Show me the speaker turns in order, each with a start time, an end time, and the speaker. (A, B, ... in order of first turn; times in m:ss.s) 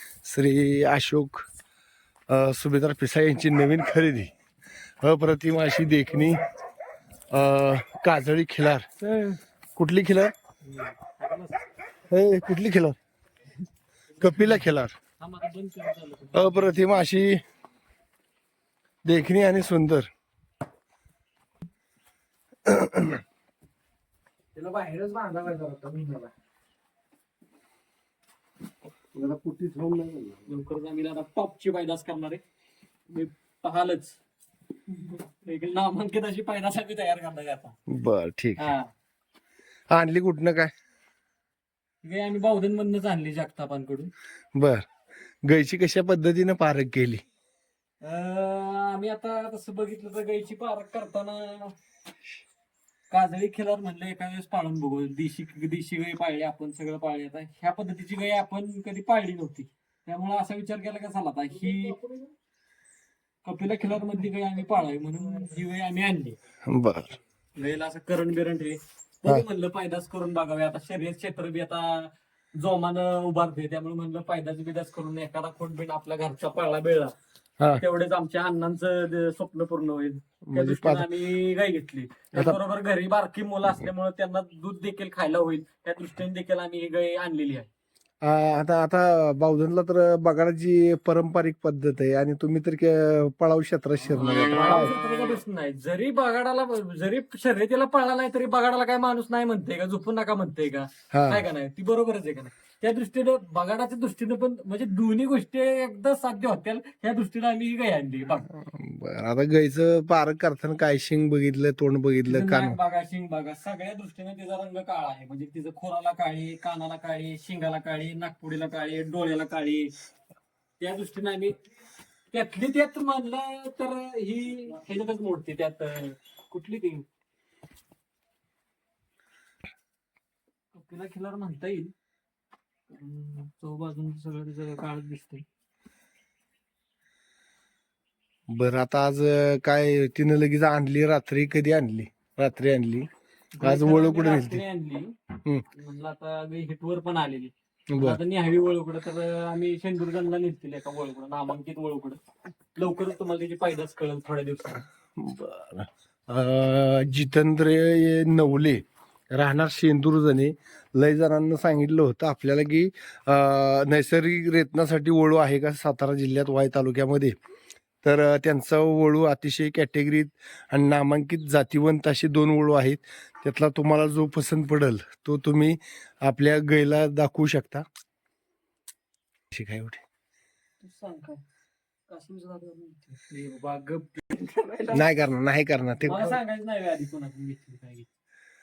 0:00.2-0:01.5 A
0:02.3-0:04.3 A
0:05.0-0:06.4 A
0:07.3-0:08.9 A
0:09.0-0:09.4 B
0:09.8-0:10.3 A
0:10.6-0:11.6 C
0:12.1-0:13.0 A
0:14.2-0:15.0 A
0:15.2-0:16.9 C
0:16.4-0:17.4 A
0:19.0-0:20.1 A
0:22.7-0:23.2 A
0:24.6-0:26.3 B
0:29.2-0:30.0 B
0:30.5-0:32.4 C
0:33.1-0:34.2 C
0:34.9-0:37.8 C
0:37.9-0:38.7 A
0:38.6-0:38.9 C
0:39.9-0:40.7 A
0:42.0-0:44.1 C
0:44.6-0:44.8 A
0:45.4-0:47.2 A
0:48.0-0:51.8 C
0:53.1-1:02.0 C
1:03.4-1:06.4 C
1:06.7-1:07.2 A
1:07.6-1:17.1 C
1:17.7-1:27.7 C
1:20.4-1:21.1 A
1:22.3-1:22.6 A
1:28.2-1:34.9 A
1:34.1-1:48.5 C
1:41.1-1:41.5 A
1:48.4-1:52.8 A
1:52.3-1:59.9 C
2:00.8-2:01.6 C
2:02.3-2:07.1 C
2:10.7-2:11.9 C
2:12.9-2:15.4 C
2:18.5-2:23.1 A
2:23.6-2:25.1 C
2:23.6-2:24.6 A
2:25.7-2:32.2 C
2:27.9-2:28.2 A
2:32.8-2:34.9 C
2:35.2-2:47.4 A
2:48.0-2:57.9 A
2:59.5-3:00.0 A
3:00.8-3:01.4 C
3:02.1-3:03.2 C
3:03.3-3:05.1 B
3:04.9-3:06.3 A
3:06.0-3:08.1 C